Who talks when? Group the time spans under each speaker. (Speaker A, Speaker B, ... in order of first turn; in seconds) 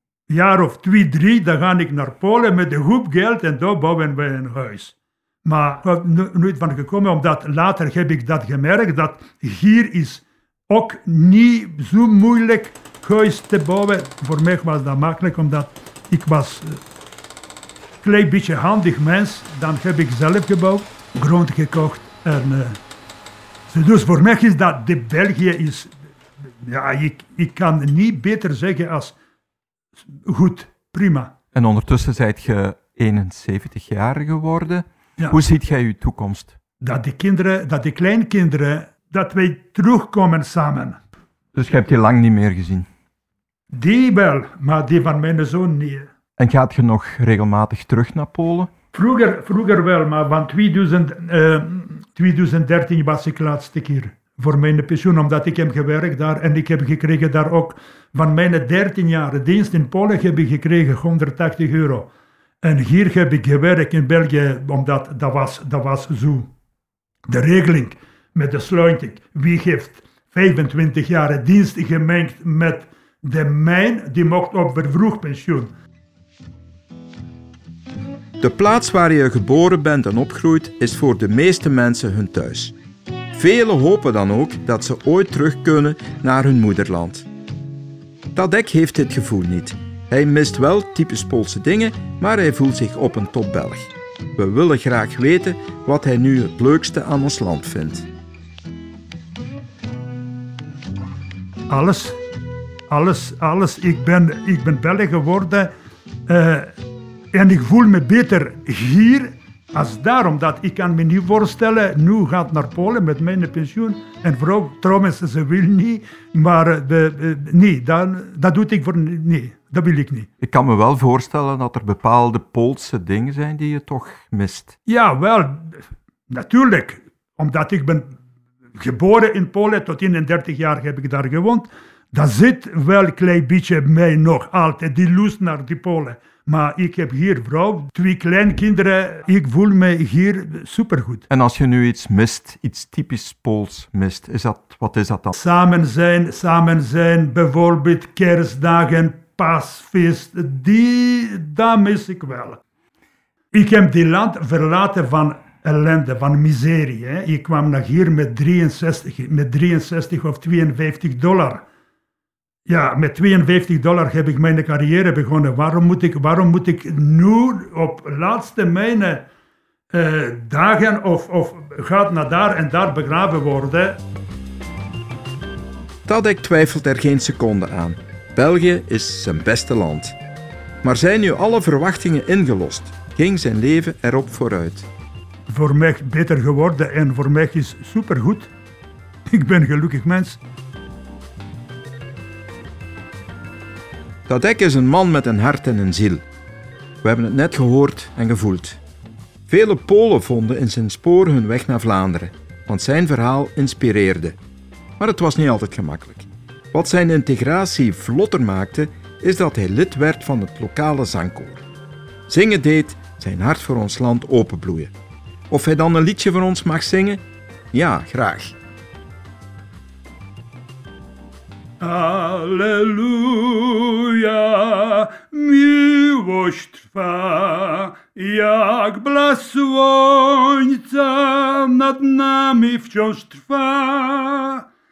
Speaker A: 0.3-16.8, 18.0-22.8, 23.7-25.9, 26.6-29.1, 30.1-31.3, 36.8-41.0, 43.7-46.1, 48.9-62.1, 62.6-66.5, 67.3-75.7, 101.7-102.2, 102.9-105.7, 106.3-106.7, 107.3-120.3, 124.8-128.1, 128.8-141.2, 145.3-152.6, 153.5-161.6, 162.7-169.3, 169.9-174.0, 185.5-188.5, 189.3-190.4, 221.8-234.6
Speaker B: 31.5-36.5, 41.5-42.9, 46.4-48.7, 78.4-82.7, 83.3-87.3, 88.3-98.1, 120.4-124.7, 141.3-145.3, 176.1-180.2, 180.8-184.9, 194.3-196.2, 197.0-198.8, 199.5-204.4, 205.0-211.6, 212.3-214.9, 215.5-218.6